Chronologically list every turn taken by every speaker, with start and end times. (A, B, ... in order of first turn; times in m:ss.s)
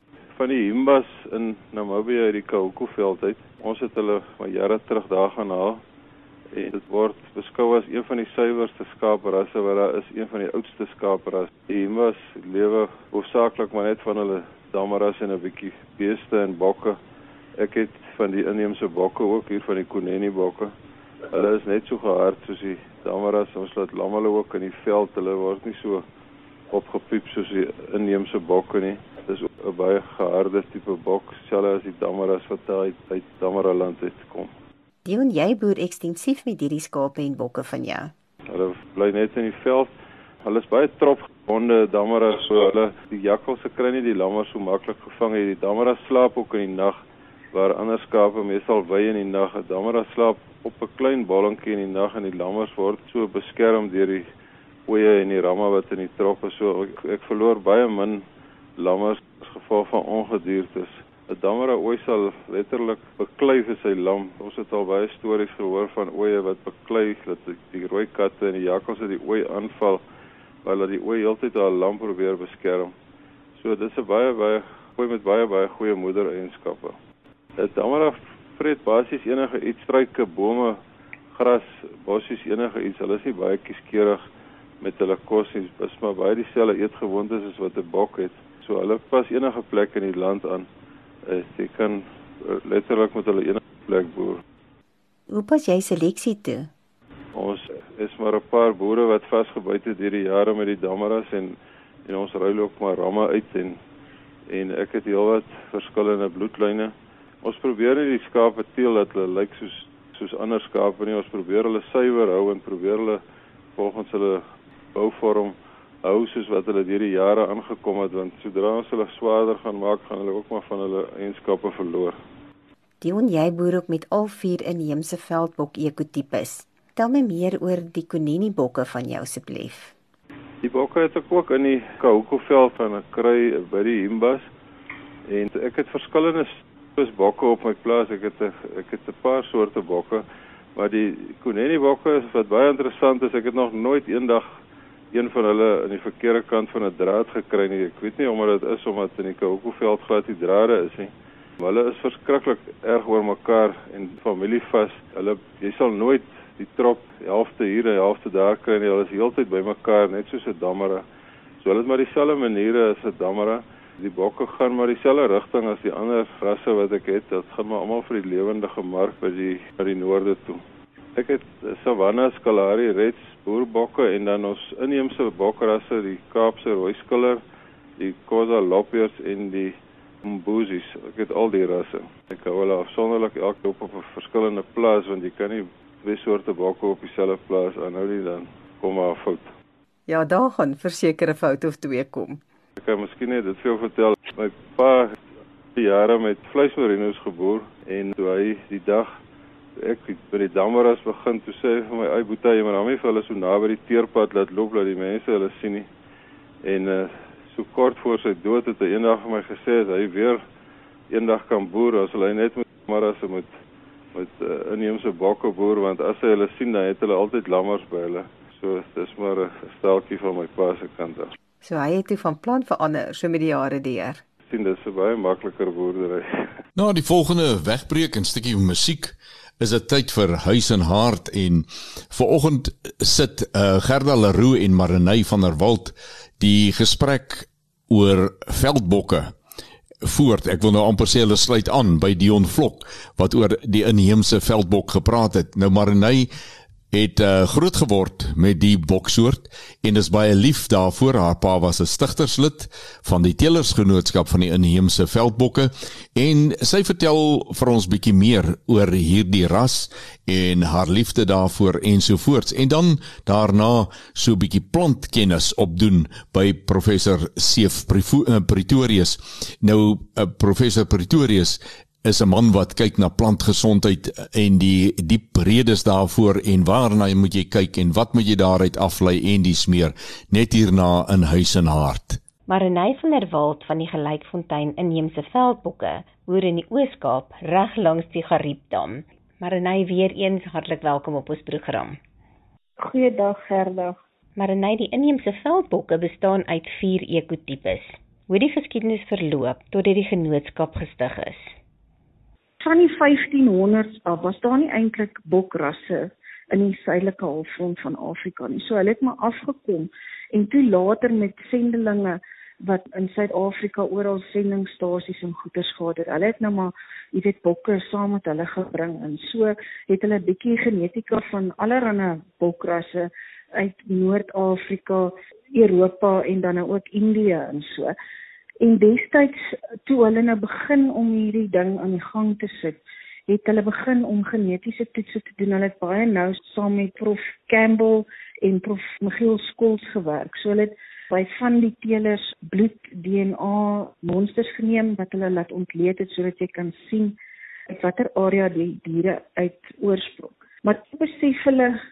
0:00.3-0:05.8 A
0:06.5-0:17.0 A
0:17.6-0:20.7 A
0:21.3-0:26.0 A
0:26.7-0:34.5 A
0:35.0-0:38.1 B
0:38.5-0:39.9 A
0:40.4-0:54.3 A
0:54.8-0:58.2 A
0:58.8-1:10.0 A
1:10.6-1:12.9 A
1:13.6-1:17.0 A
1:17.6-1:20.8 A
1:21.3-1:24.2 A
1:24.8-1:30.7 A
1:31.2-1:34.4 A
1:35.3-1:36.7 B
1:37.3-1:43.8 A
1:44.5-1:53.2 A
1:53.7-1:54.4 A
1:54.9-2:02.2 A
2:03.0-2:09.9 B
2:10.6-2:14.4 A
2:15.3-2:20.2 A
2:20.7-2:24.6 A
2:25.1-2:41.0 A
2:41.6-2:50.6 A
2:51.1-2:57.4 A
2:58.0-3:09.5 A
3:10.1-3:12.4 B
3:12.8-3:15.2 A
3:15.7-3:19.1 A
3:19.8-3:25.9 A
3:26.6-3:30.4 A
3:31.1-3:33.5 A
3:34.1-3:41.3 A
3:41.6-3:44.2 B
3:44.4-3:46.5 A
3:46.8-3:59.3 C
4:00.0-4:06.3 C
4:06.9-4:42.2 C
4:42.5-4:52.0 D
4:52.8-4:54.0 E
4:54.4-5:01.4 D
5:02.6-5:27.9 E
5:28.6-5:47.2 E
5:47.7-5:51.8 E